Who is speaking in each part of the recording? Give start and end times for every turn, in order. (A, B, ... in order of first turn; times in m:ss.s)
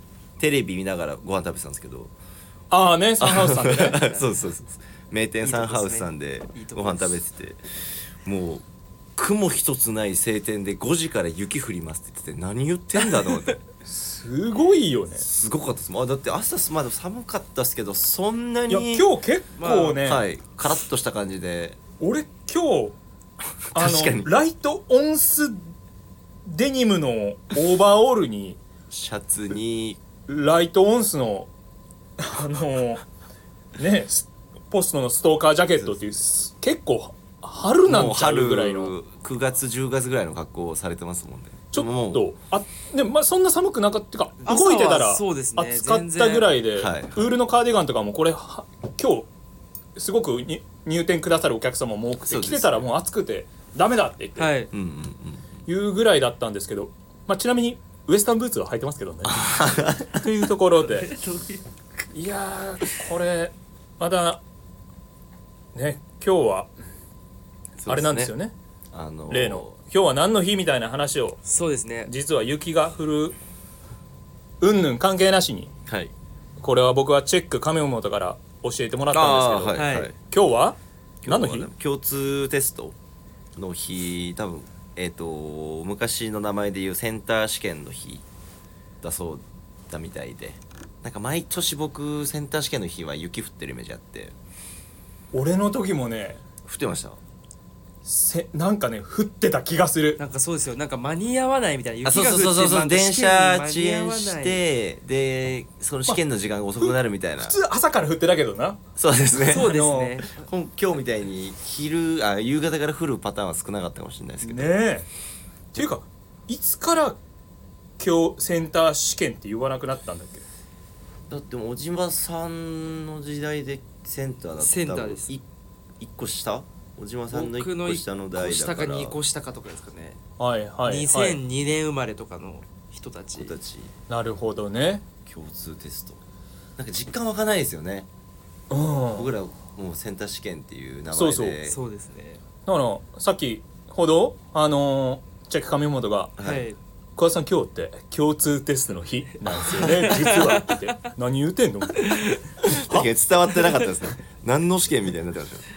0:00.4-0:02.1 A
0:02.7-0:04.0 B
0:03.2-0:07.6 A
0:03.9-0:04.4 C
0:05.4-0:07.2 C
0:08.2-0:08.6 A
0:09.2-0:13.6 A
0:13.8-0:15.2 B
0:15.2-0:19.1 A
0:18.7-0:20.2 B
0:19.6-0:20.0 C
0:20.0-0:21.8 A
0:22.0-0:23.0 B
0:23.7-0:24.3 A
0:23.8-0:25.7 B
0:26.5-0:28.6 B
0:28.9-0:30.0 A
0:30.3-0:31.5 B
0:32.2-0:33.0 B
0:33.8-0:39.0 B
0:35.8-0:36.1 A
0:37.9-0:42.3 A
0:41.7-0:49.3 B
0:44.4-0:46.6 C
0:46.8-0:47.3 A
0:50.0-0:54.5 B
0:52.3-0:52.8 A
0:54.4-0:54.7 C
0:54.7-0:55.5 A
0:55.7-0:59.5 B
0:59.3-1:00.2 A
1:00.0-1:01.1 B
1:00.8-1:01.6 C
1:02.1-1:04.4 B
1:05.7-1:06.7 B
1:07.8-1:08.3 A
1:07.9-1:08.5 B
1:08.9-1:09.8 A
1:09.3-1:11.4 B
1:11.5-1:12.1 C
1:12.1-1:13.4 B
1:14.6-1:15.7 B
1:15.9-1:16.1 A
1:16.6-1:21.7 B
1:19.1-1:20.1 A
1:19.8-1:20.1 C
1:21.2-1:23.0 A
1:23.6-1:28.2 A
1:29.0-1:34.3 A
1:35.3-1:36.4 B
1:36.6-1:37.2 A
1:38.0-1:40.2 B
1:40.2-1:44.6 C
1:42.0-1:47.6 A
1:46.8-1:48.8 B
1:49.0-1:49.8 A
1:49.4-1:50.4 C
1:49.5-1:50.2 B
1:50.3-1:54.8 A
1:54.4-1:55.1 B
1:55.7-1:57.2 B
1:58.0-2:00.4 B
2:01.3-2:05.4 A
2:04.6-2:05.3 C
2:06.0-2:09.2 A
2:07.3-2:10.2 C
2:10.4-2:11.4 B
2:10.9-2:13.5 C
2:13.4-2:13.9 A
2:14.1-2:15.0 B
2:15.3-2:16.2 A
2:16.8-2:18.1 A
2:18.7-2:19.3 B
2:19.0-2:21.8 A
2:21.1-2:21.6 B
2:21.7-2:22.4 C
2:22.7-2:26.3 B
2:26.4-2:26.7 A
2:26.4-2:26.8 C
2:27.2-2:33.1 B
2:29.8-2:30.8 C
2:32.0-2:32.4 C
2:32.7-2:35.7 A